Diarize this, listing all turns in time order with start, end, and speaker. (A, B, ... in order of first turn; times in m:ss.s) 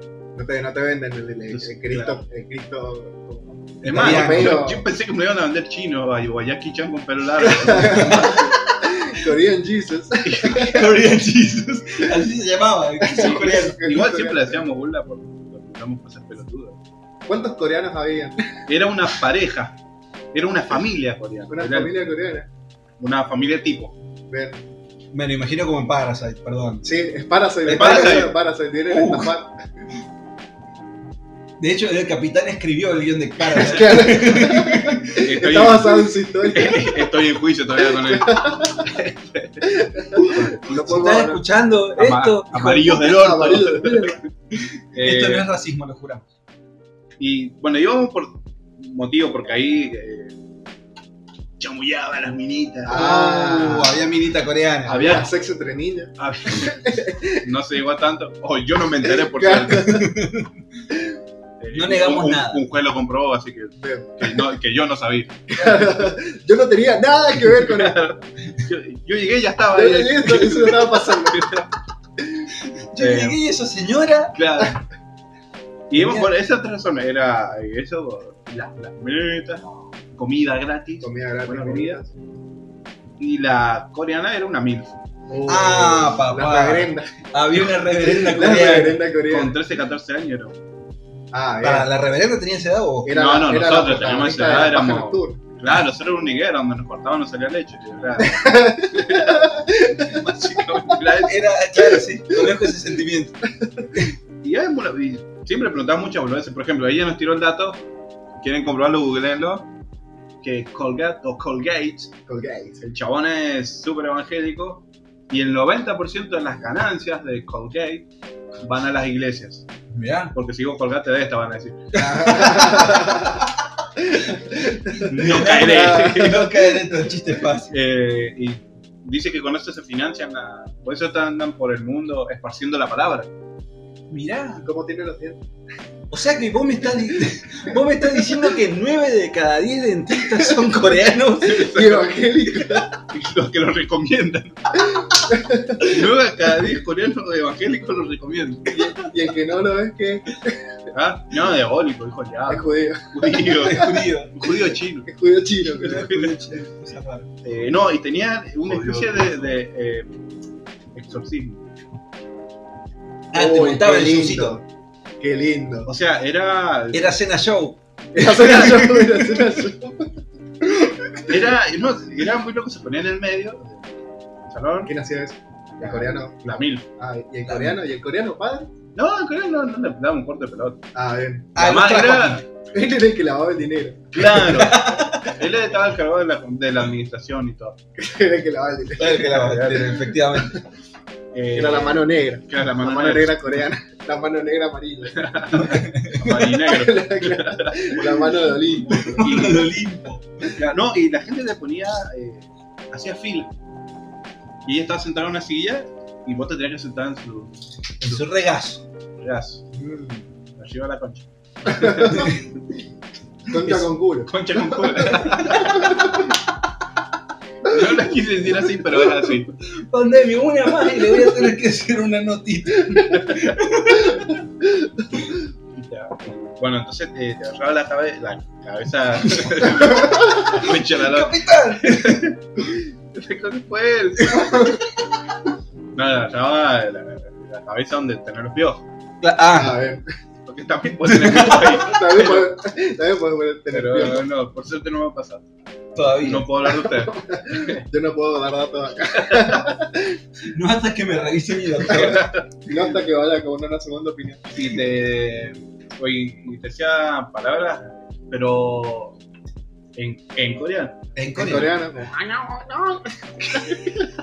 0:00.4-0:04.8 A
0:01.5-0:02.2 B
0:03.8-0:04.6 C
0:03.8-0:08.6 B
0:07.4-0:10.7 A
0:07.7-0:08.4 C
0:10.2-0:10.9 B
0:10.6-0:14.0 C
0:13.0-0:14.6 A
0:13.2-0:16.8 B
0:17.3-0:18.4 A
0:18.7-0:19.8 B
0:20.3-0:21.9 B
0:21.5-0:22.5 A
0:23.0-0:23.9 B
0:24.3-0:24.6 A
0:25.1-0:26.8 C
0:26.8-0:29.5 A
0:27.7-0:28.2 C
0:27.7-0:28.3 B
0:28.9-0:29.3 C
0:31.6-0:35.2 C
0:33.5-0:37.0 A
0:35.2-0:41.2 B
0:38.0-0:38.9 A
0:39.6-0:41.4 A
0:40.7-0:43.0 C
0:42.0-0:44.2 B
0:42.9-0:44.2 A
0:44.5-0:46.2 C
0:44.9-0:45.4 B
0:47.2-0:50.3 B
0:51.6-0:53.0 B
0:52.8-0:54.0 A
0:52.9-0:55.3 C
0:54.8-0:57.4 A
0:54.9-0:55.3 B
0:56.2-0:56.8 B
0:57.4-1:00.0 B
0:59.0-1:00.1 A
1:00.0-1:00.5 C
1:01.6-1:05.4 B
1:01.7-1:02.6 C
1:03.8-1:04.4 A
1:05.5-1:08.0 A
1:07.5-1:11.7 B
1:09.7-1:11.5 A
1:12.9-1:14.4 C
1:13.0-1:13.4 B
1:14.3-1:14.8 B
1:15.9-1:22.0 B
1:15.9-1:16.3 C
1:21.0-1:22.1 A
1:23.2-1:24.9 B
1:25.3-1:27.1 A
1:25.4-1:29.0 C
1:27.9-1:29.5 A
1:29.3-1:30.6 B
1:31.3-1:31.9 A
1:31.6-1:33.1 C
1:33.0-1:35.4 A
1:33.1-1:41.4 B
1:38.2-1:40.2 A
1:41.2-1:43.4 C
1:41.9-1:42.7 A
1:44.4-1:47.8 B
1:48.4-1:49.7 B
1:50.4-1:52.1 B
1:52.3-1:52.8 A
1:52.8-1:58.1 B
1:58.6-1:59.7 B
1:59.9-2:00.3 C
2:00.3-2:02.8 B
2:01.9-2:03.5 C
2:02.0-2:03.3 A
2:04.1-2:06.2 A
2:04.8-2:07.7 C
2:05.1-2:06.6 B
2:07.7-2:13.3 B
2:14.1-2:14.6 C
2:14.6-2:15.4 A
2:16.1-2:21.7 C
2:20.3-2:20.7 A
2:21.4-2:25.0 B
2:21.6-2:22.9 A
2:24.8-2:26.0 A
2:25.8-2:28.9 B
2:28.7-2:30.6 A
2:30.9-2:35.1 B
2:32.5-2:33.8 A
2:33.6-2:34.4 C
2:35.0-2:36.1 A
2:35.7-2:37.4 C
2:35.8-2:36.4 B
2:37.4-2:40.1 B
2:38.7-2:39.1 A
2:40.9-2:41.6 B
2:43.3-2:44.6 C
2:43.3-2:44.6 A
2:45.2-2:45.9 A
2:45.8-2:47.1 B
2:46.9-2:49.2 C
2:48.1-2:50.1 A
2:48.4-2:48.8 B
2:51.3-2:53.9 B
2:54.5-2:54.9 B
2:54.8-2:58.7 A
2:55.8-2:56.8 B
2:57.5-2:57.8 C
2:58.9-3:00.8 B
3:00.9-3:01.5 A
3:01.5-3:02.4 C
3:01.6-3:02.4 B
3:02.7-3:04.4 A
3:04.1-3:07.8 B
3:04.2-3:05.2 C
3:08.0-3:09.6 A
3:09.0-3:10.6 C
3:09.3-3:09.9 B
3:10.3-3:10.6 A
3:11.3-3:13.6 B
3:11.5-3:15.2 A
3:15.1-3:18.3 B
3:15.5-3:16.3 C
3:16.2-3:19.3 A
3:18.8-3:20.2 C
3:19.2-3:19.7 B
3:20.5-3:23.5 B
3:24.6-3:27.6 B
3:28.0-3:28.8 C
3:29.2-3:29.6 B
3:29.7-3:30.2 A
3:30.6-3:32.4 B
3:31.6-3:32.4 A
3:32.1-3:32.4 C
3:33.5-3:36.2 A
3:34.3-3:36.2 B
3:35.5-3:35.8 C
3:37.6-3:39.5 B
3:39.6-3:44.3 C
3:43.2-3:43.6 B
3:43.9-3:44.3 A
3:45.7-3:54.8 B
3:50.6-3:52.3 C
3:54.3-3:54.8 A
3:55.9-3:58.8 B
3:59.2-3:59.8 C
3:59.5-4:00.0 A
4:00.4-4:02.5 B
4:01.0-4:01.8 C
4:01.7-4:04.2 A
4:03.7-4:05.4 B
4:05.9-4:06.5 C
4:06.2-4:07.8 B
4:07.0-4:10.2 A
4:09.3-4:09.6 B
4:10.5-4:12.3 C
4:11.9-4:12.4 B
4:12.6-4:14.4 A
4:14.5-4:19.2 B
4:20.0-4:21.0 B
4:21.2-4:21.7 C
4:21.3-4:24.0 A